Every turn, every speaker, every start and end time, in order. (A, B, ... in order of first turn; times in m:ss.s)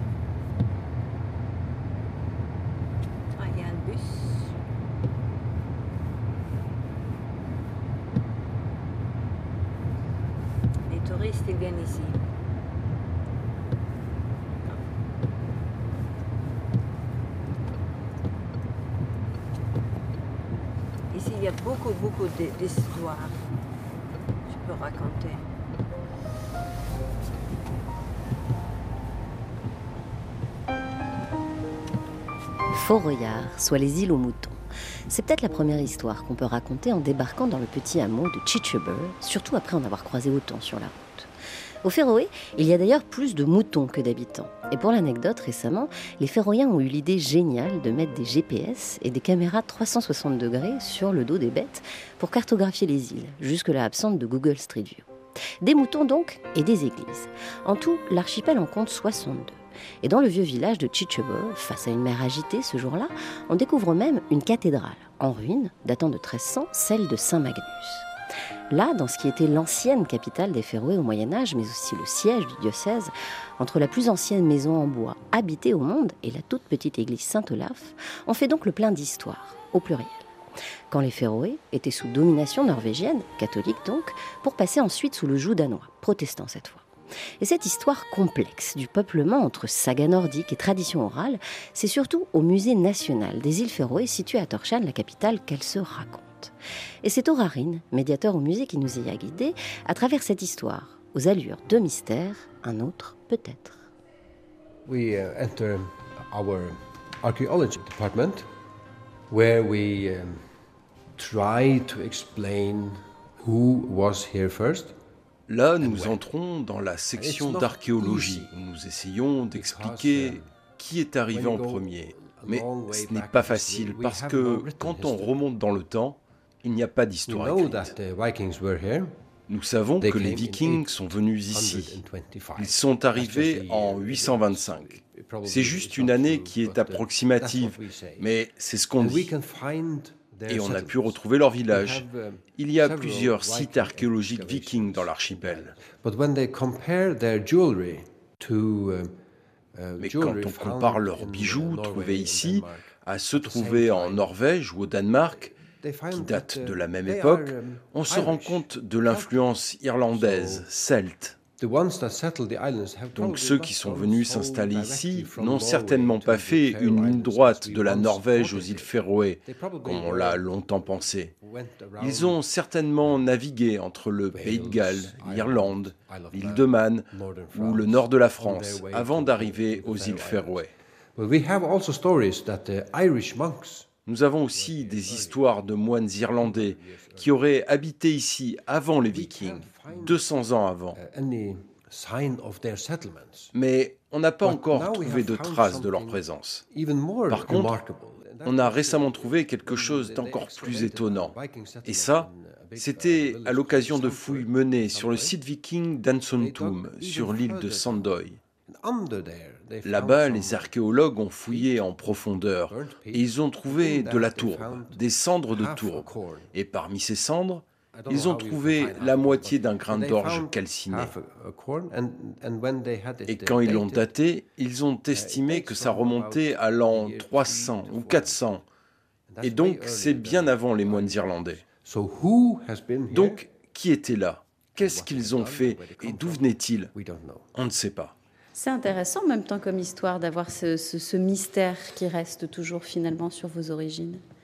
0:03.3-0:04.6 A
0:10.9-0:12.2 A
0:21.1-0:23.4 A
0:24.5-0:25.4 A
0:32.7-0:41.3 B
0:41.8-0:55.1 B
0:55.6-1:08.1 B
1:08.7-1:20.3 B
1:20.9-1:26.9 B
1:27.4-1:43.9 B
1:44.8-1:48.5 C
1:49.3-1:50.5 C
1:51.2-1:55.0 C
1:55.5-2:07.9 D
1:55.8-1:56.2 C
1:57.2-1:58.5 C
1:59.5-2:00.5 C
2:01.3-2:05.4 C
2:07.3-2:09.1 C
2:09.5-2:12.0 D
2:10.0-2:11.0 C
2:11.5-2:18.3 C
2:12.6-2:19.3 D
2:19.0-2:29.2 C
2:20.5-2:25.8 D
2:29.8-2:34.3 C
2:30.0-2:41.4 D
2:35.3-2:39.6 C
2:40.1-2:40.7 C
2:41.6-2:48.9 C
2:43.2-2:51.4 D
2:49.4-2:50.5 C
2:51.4-2:52.4 C
2:52.0-3:00.7 D
2:54.3-3:03.9 C
3:04.1-3:11.0 D
3:04.5-3:05.4 C
3:06.4-3:07.4 C
3:09.1-3:10.3 C
3:10.9-3:13.5 C
3:13.5-3:16.7 D
3:14.4-3:25.4 C
3:17.3-3:17.9 D
3:18.4-3:28.4 D
3:26.4-3:28.1 C
3:28.7-3:30.7 C
3:29.8-3:41.1 D
3:31.5-3:32.0 C
3:32.7-3:36.5 C
3:37.9-3:44.1 C
3:43.3-3:48.6 D
3:45.1-3:48.6 C
3:49.3-3:53.4 C
3:49.4-3:51.6 D
3:53.1-3:56.9 D
3:54.8-3:57.5 C
3:57.5-3:58.1 D
3:58.6-4:04.2 E